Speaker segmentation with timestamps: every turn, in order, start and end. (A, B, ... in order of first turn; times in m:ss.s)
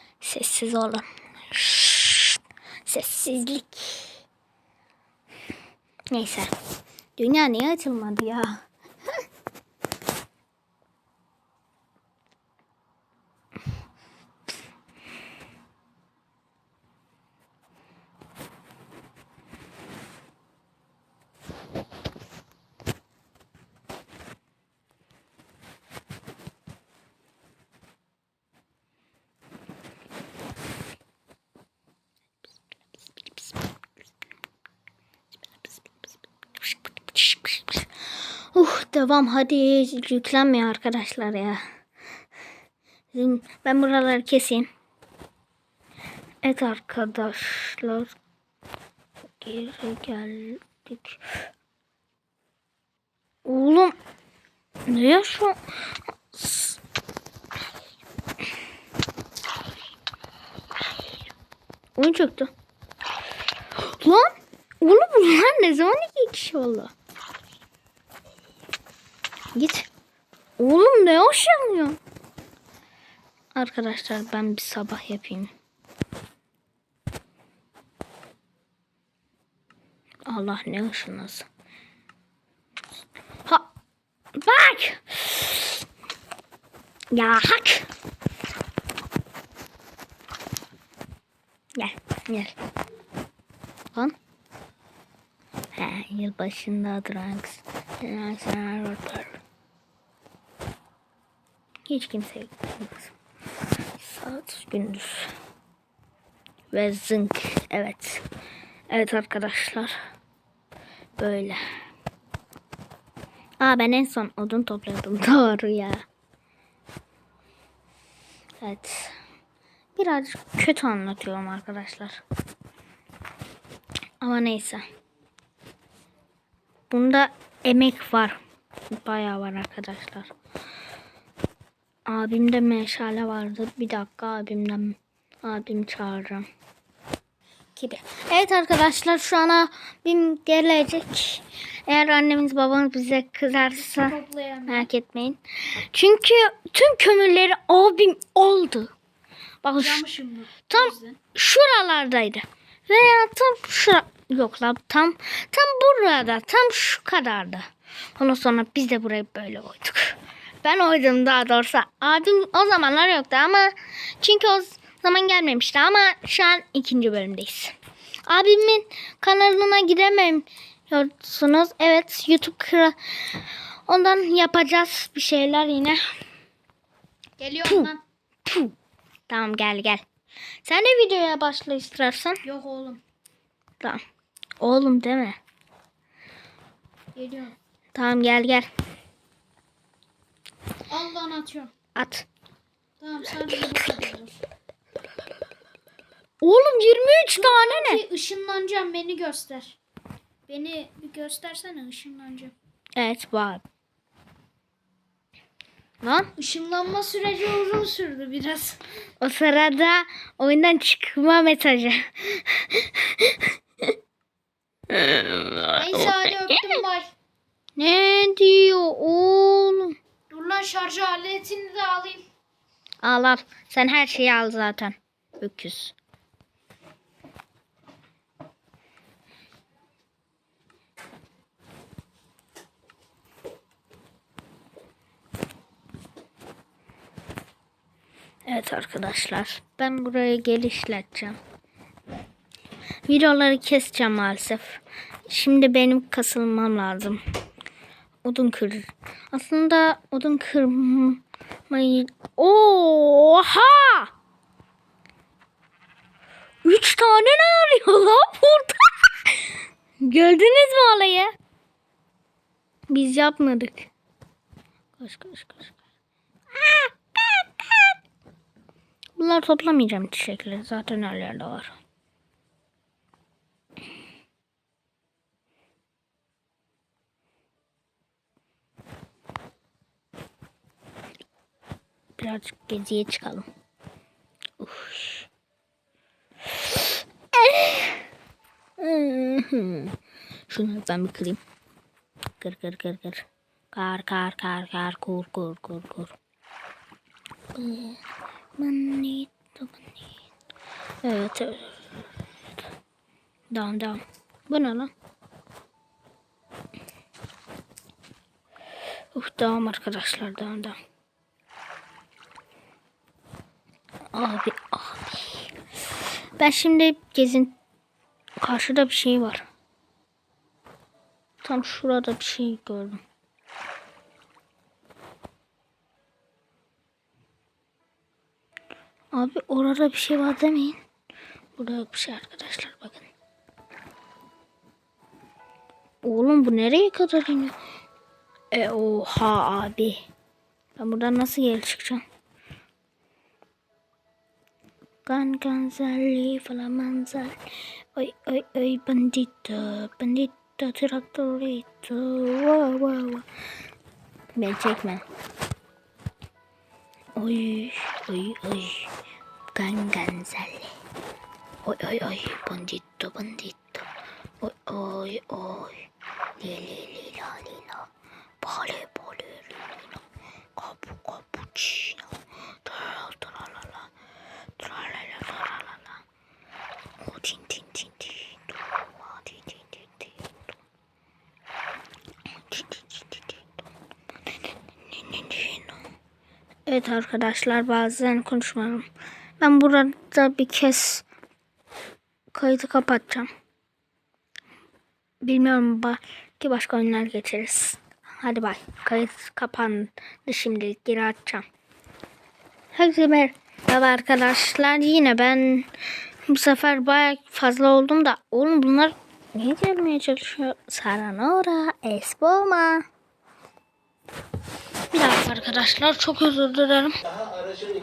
0:00.2-0:04.2 A
0:06.1-0:06.5 A
0:07.2-0:08.6 A
0:35.7-0:35.9 A
0:36.6-0:37.9 A
0:38.5-0:41.6 A
0:43.1-0:44.7 A
0:46.4-0:48.1 A
0:49.4-0:51.2 A
0:53.4-0:53.9 A
0:54.9-0:55.6 A
0:56.3-0:56.8 A
1:02.0-1:02.5 A
1:03.8-1:06.9 A
1:09.5-1:09.9 A
1:10.6-1:12.0 A
1:13.5-1:15.5 A
1:20.3-1:21.5 A
1:24.4-1:25.7 A
1:27.1-1:27.9 A
1:31.8-1:32.5 A
1:35.7-1:39.4 A
1:41.9-1:43.1 A
1:44.0-1:45.3 A
1:46.7-1:48.2 A
1:48.9-1:49.9 A
1:51.2-1:51.6 A
1:53.6-1:56.0 A
1:58.6-1:59.2 A
2:00.0-2:02.2 A
2:04.2-2:04.8 A
2:06.9-2:08.4 A
2:08.9-2:10.3 A
2:12.1-2:16.5 A
2:17.8-2:28.9 A
2:23.8-2:24.9 B
2:29.6-2:30.0 A
2:29.8-2:31.2 B
2:30.7-2:37.7 A
2:38.2-2:47.7 A
2:48.3-2:56.0 A
2:57.4-2:58.0 B
2:58.4-2:58.7 A
2:59.3-3:00.0 A
3:00.6-3:02.4 A
3:02.4-3:03.0 B
3:04.6-3:05.4 A
3:07.1-3:07.6 B
3:07.9-3:08.7 A
3:10.9-3:11.7 B
3:11.9-3:12.3 A
3:13.0-3:14.4 B
3:16.4-3:18.0 A
3:17.3-3:19.8 B
3:20.5-3:22.5 B
3:23.0-3:23.6 A
3:26.0-3:26.3 A
3:26.4-3:28.8 B
3:29.2-3:33.4 A
3:34.9-3:35.8 A
3:35.7-3:37.1 B
3:37.8-3:39.9 A
3:40.3-3:42.2 B
3:43.0-3:45.9 A
3:58.4-4:01.4 A
4:03.1-4:07.2 A
4:08.2-4:14.1 A
4:16.6-4:19.4 A
4:20.0-4:21.3 A
4:22.9-4:23.9 A
4:25.0-4:25.8 A
4:26.5-4:27.8 A
4:29.2-4:31.7 A
4:42.2-4:43.5 A
4:44.6-4:45.3 A
4:47.3-4:48.0 A
4:48.8-4:50.0 A
4:50.5-4:51.4 A
4:52.4-4:56.2 A
4:57.5-4:58.0 A
4:58.6-5:00.0 A
5:01.0-5:01.8 A
5:03.5-5:04.9 A
5:09.1-5:10.8 A
5:14.1-5:15.5 A
5:16.4-5:17.5 A
5:18.4-5:19.4 A
5:21.4-5:23.0 A
5:29.1-5:30.8 A
5:31.6-5:33.1 A
5:36.0-5:37.5 A
5:38.5-5:40.0 A
5:40.8-5:42.0 A
5:45.0-5:47.4 A
5:47.9-5:53.2 A
5:54.4-5:55.0 A
5:57.2-5:58.9 A
5:59.5-6:00.7 A
6:01.6-6:03.8 A
6:04.4-6:05.8 A
6:06.4-6:07.9 A
6:08.4-6:09.6 A
6:10.6-6:12.0 A
6:12.6-6:13.8 A
6:14.6-6:15.9 A
6:17.0-6:18.4 A
6:19.0-6:20.1 A
6:22.5-6:23.4 A
6:24.9-6:25.7 A
6:26.6-6:28.8 A
6:29.4-6:31.0 A
6:32.3-6:33.3 A
6:35.2-6:41.4 A
6:42.7-6:45.7 A
6:46.3-6:52.8 A
6:54.9-6:56.9 A